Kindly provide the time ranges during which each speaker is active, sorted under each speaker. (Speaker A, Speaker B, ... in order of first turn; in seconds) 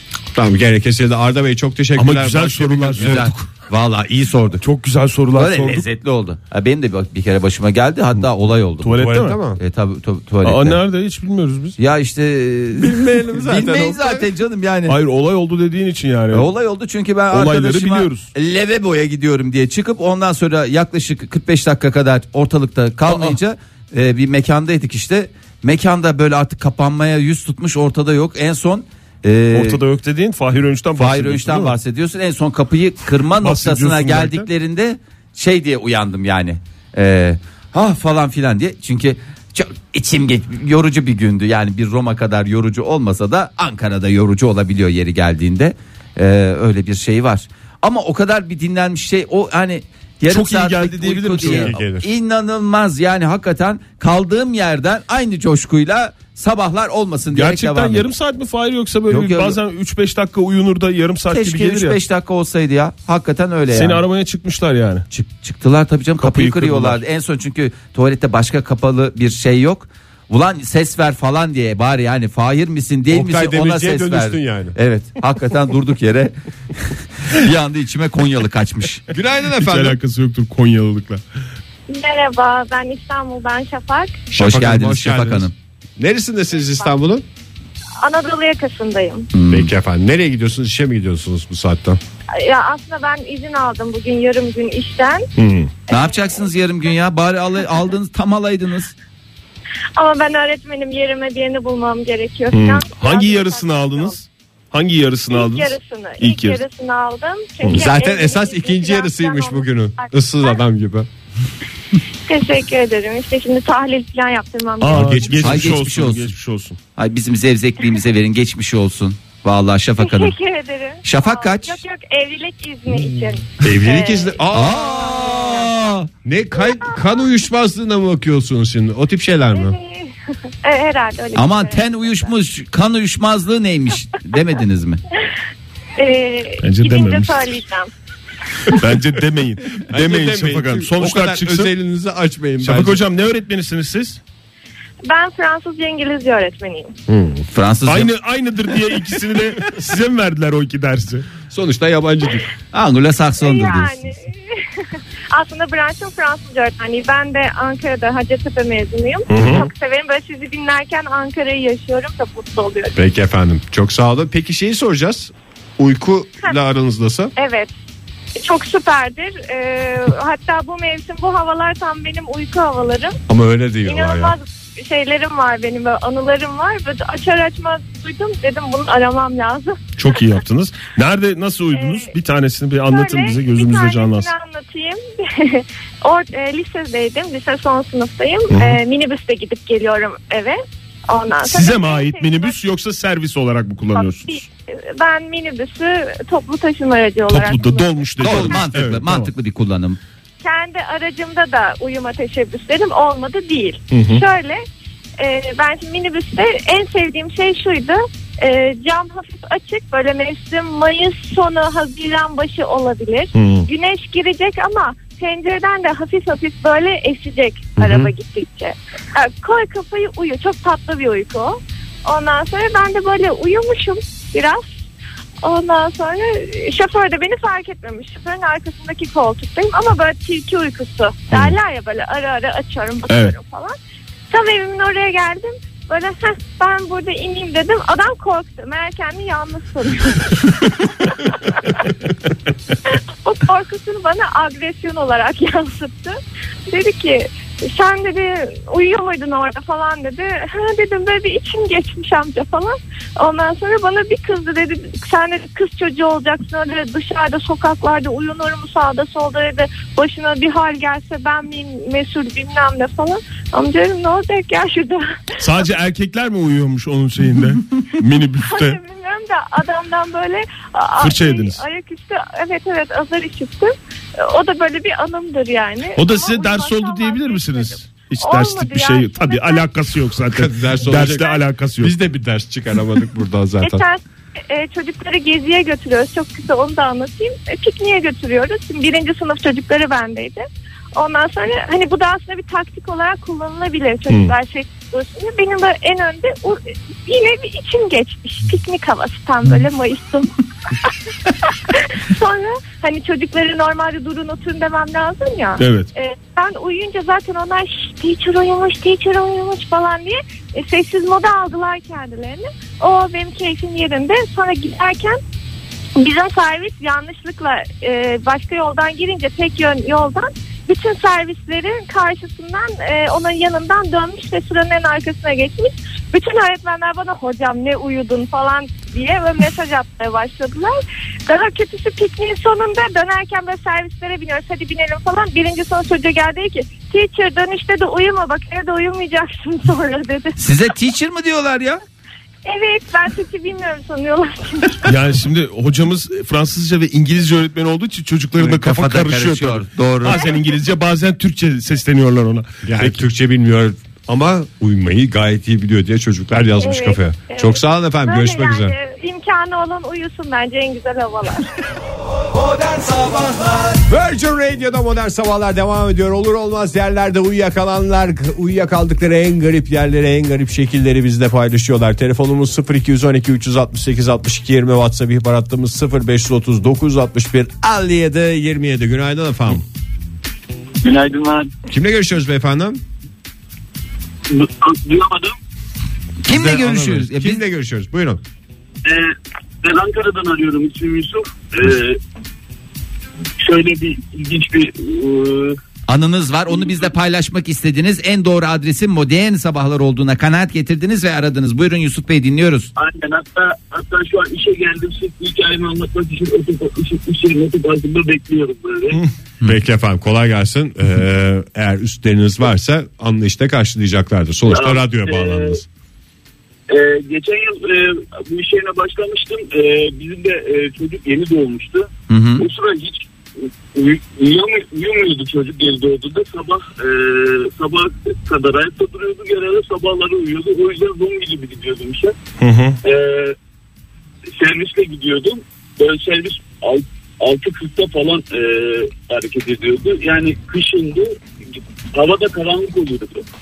Speaker A: 0.3-3.3, 9.0-9.6, 12.8-14.3, 51.4-52.1, 73.1-74.8, 79.1-80.0, 84.3-87.2, 89.5-92.0, 107.7-111.1, 114.9-115.8, 123.6-125.4, 126.2-129.8, 139.9-143.0, 147.1-147.4, 151.5-152.5, 159.3-159.7, 162.9-167.3, 173.3-174.3, 280.3-283.8, 352.6-358.7, 363.8-379.6, 381.7-382.8, 386.2-388.2, 409.4-415.6
Speaker B: 1.9-3.5, 4.6-5.8, 8.8-9.4, 10.4-11.8, 14.8-16.5, 17.3-18.3, 23.1-23.4, 29.5-31.7, 33.4-34.5, 50.3-51.7, 57.3-62.0, 63.7-65.0, 66.2-67.0, 79.5-81.2, 95.4-95.7, 102.5-106.6, 107.6-107.9, 114.8-116.8, 136.6-137.6, 138.7-141.7, 142.6-144.2, 147.8-151.3, 159.3-159.7, 180.0-184.3, 188.5-188.8, 191.4-194.4, 197.3-199.3, 203.9-204.2, 213.3-213.7, 217.8-218.1, 233.1-233.3, 265.4-268.8, 271.0-271.6, 275.9-281.9, 294.1-294.3, 305.6-305.9, 344.8-353.0, 432.4-432.8
Speaker C: 3.0-4.6, 5.3-10.8, 11.8-14.9, 16.3-29.8, 30.9-58.1, 59.1-59.6, 61.3-64.0, 65.1-79.0, 84.4-85.5, 89.3-89.7, 95.9-98.9, 115.4-116.3, 117.0-120.3, 121.0-121.8, 124.5-126.1, 131.3-135.0, 147.5-148.1, 152.7-154.1, 198.2-200.0, 340.4-341.8, 348.4-350.2, 386.2-387.4, 395.9-402.7, 422.1-422.5
Speaker D: 81.9-84.2, 88.0-89.3, 92.3-95.3, 95.9-96.4, 100.0-104.2, 105.3-110.6, 112.3-115.3, 120.0-124.4, 125.2-125.8, 126.5-127.2, 129.5-132.3, 136.0-137.9, 145.1-146.9, 153.4-154.8, 155.3-162.9, 167.3-167.7, 168.4-173.2, 173.8-179.8, 181.7-182.1, 182.9-192.6, 193.9-198.7, 200.4-204.6, 205.2-224.7, 225.4-233.8, 234.3-241.8, 243.2-246.2, 246.7-265.4, 268.4-279.6, 281.0-281.4, 283.6-300.3, 301.3-315.2, 316.0-340.4, 342.4-344.9, 356.6-361.5
Speaker E: 380.8-381.5, 384.3-385.4, 388.8-392.0, 393.4-395.6, 396.5-396.9, 402.8-409.0, 414.5-415.6, 416.7-432.1, 432.8-433.4, 434.3-441.2, 441.9-443.2